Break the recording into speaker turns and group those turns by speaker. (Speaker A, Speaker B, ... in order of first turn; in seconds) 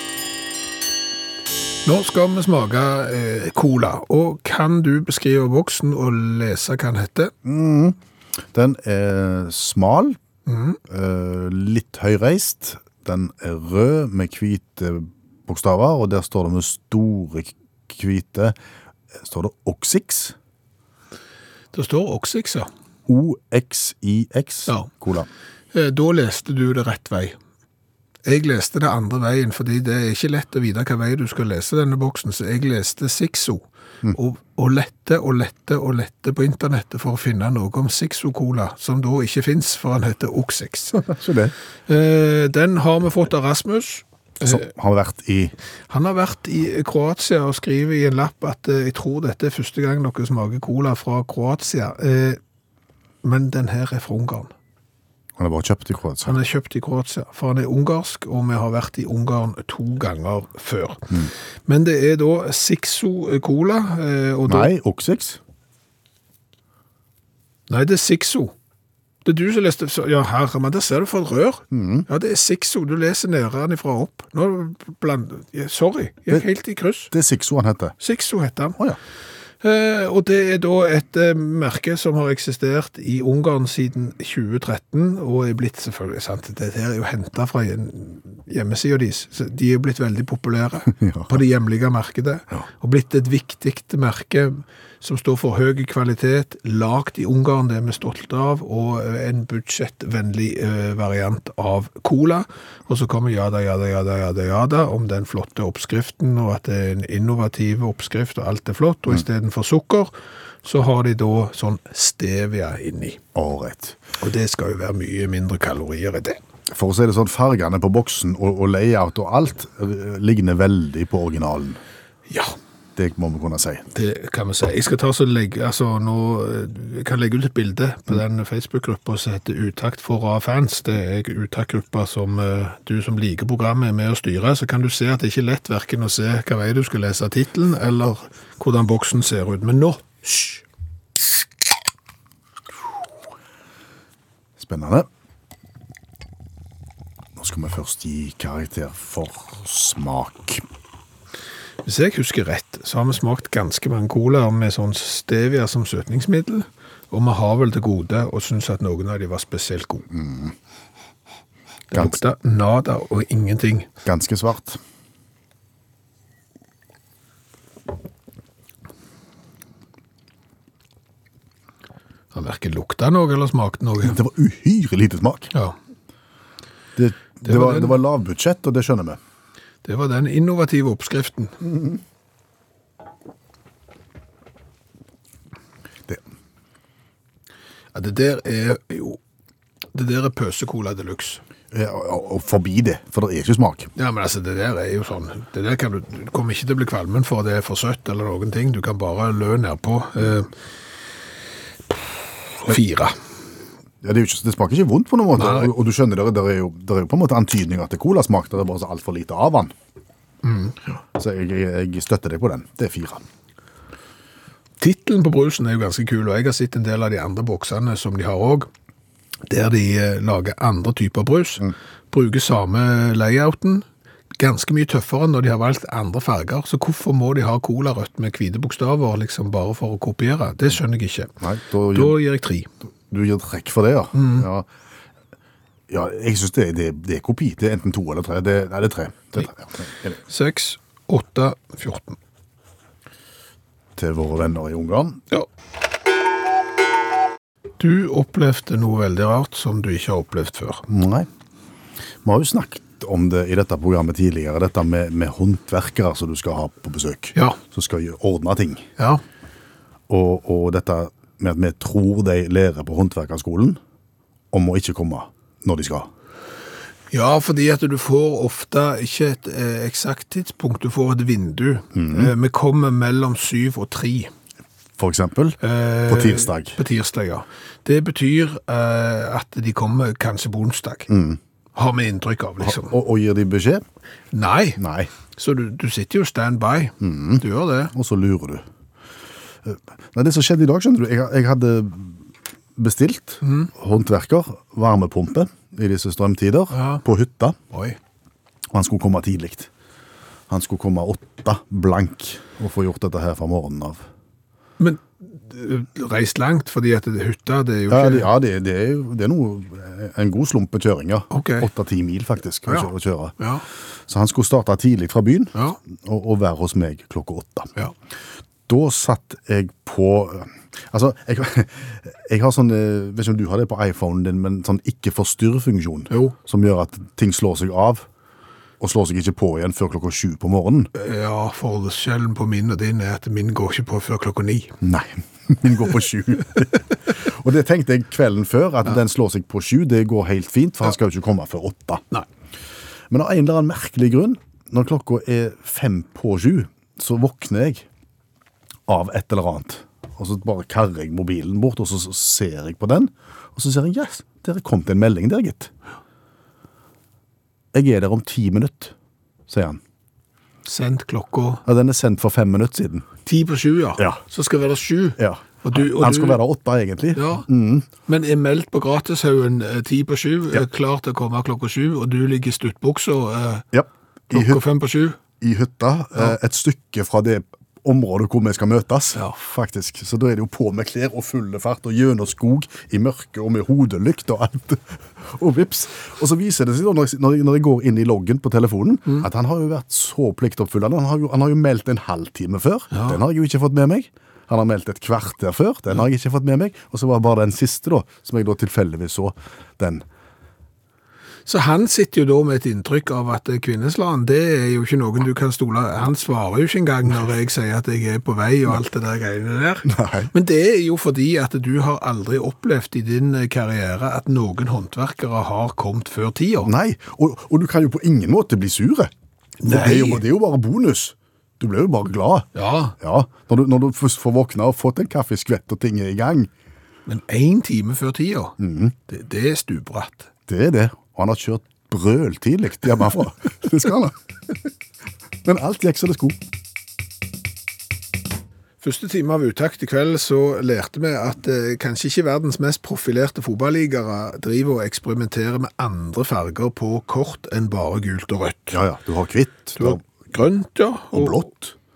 Speaker A: 1.9-7.3, 10.5-10.8, 21.7-22.7, 25.7-27.4, 28.2-41.0, 41.9-44.7, 45.9-52.4, 53.2-54.5, 56.2-64.7, 67.7-68.5, 69.2-77.1, 78.0-78.8, 79.6-110.1, 110.6-113.2, 114.2-116.4, 122.3-122.5, 123.9-140.6, 151.8-160.1, 161.9-163.9, 172.3-174.2, 177.4-178.0, 179.8-181.6, 187.9-189.2, 189.9-191.4, 194.0-200.5, 202.6-203.2, 205.4-205.7, 210.4-210.8, 214.8-218.7, 219.5-223.8, 224.4-231.3, 231.9-232.7, 234.2-234.5, 240.3-242.2, 247.8-250.9, 267.1-274.3, 275.6-281.1, 281.8-282.9, 284.3-284.8, 285.4-287.9, 293.4-293.7, 296.7-297.0, 297.7-298.0, 304.8-308.3, 311.3-311.7, 312.7-313.6, 326.1-326.4, 330.9-334.8, 360.7-361.6, 363.3-366.4, 367.1-367.5, 368.1-373.7, 374.3-375.2, 392.9-393.2, 401.5-416.7, 419.6-420.2, 422.6-422.9, 427.1-428.6, 429.1-430.3, 438.8-448.8, 449.8-451.5
Speaker B: 7.4-8.0, 8.5-10.2, 10.9-18.6, 19.2-20.4, 23.1-25.3, 41.0-41.5, 44.4-45.5, 55.4-56.4, 64.5-65.4, 71.7-72.1, 77.1-78.0, 90.9-91.4, 113.3-114.0, 116.7-121.8, 123.0-123.9, 144.6-145.1, 147.4-150.6, 160.1-160.6, 161.9-162.2, 164.0-164.8, 174.0-175.5, 177.0-179.2, 191.7-193.9, 204.0-209.7, 211.2-213.2, 231.4-232.2, 233.1-234.7, 235.9-240.2, 244.0-245.2, 250.9-251.3, 252.2-258.9, 260.1-263.8, 264.5-266.1, 271.9-272.3, 275.0-276.8, 281.1-281.4, 282.6-283.8, 284.8-285.1, 287.0-288.7, 289.6-297.6, 298.7-299.7, 300.5-304.1, 307.9-313.4, 314.1-317.7, 318.7-328.1, 328.8-330.9, 334.8-342.0, 343.1-347.9, 348.9-355.7, 357.7-358.9, 359.5-359.8, 361.6-363.1, 364.0-364.2, 365.2-367.9, 373.7-374.6, 375.4-400.1, 409.9-410.3, 416.6-419.1, 419.6-422.5, 423.0-426.5, 428.6-428.9, 430.5-434.2, 435.4-436.4, 448.7-450.0, 451.1-451.7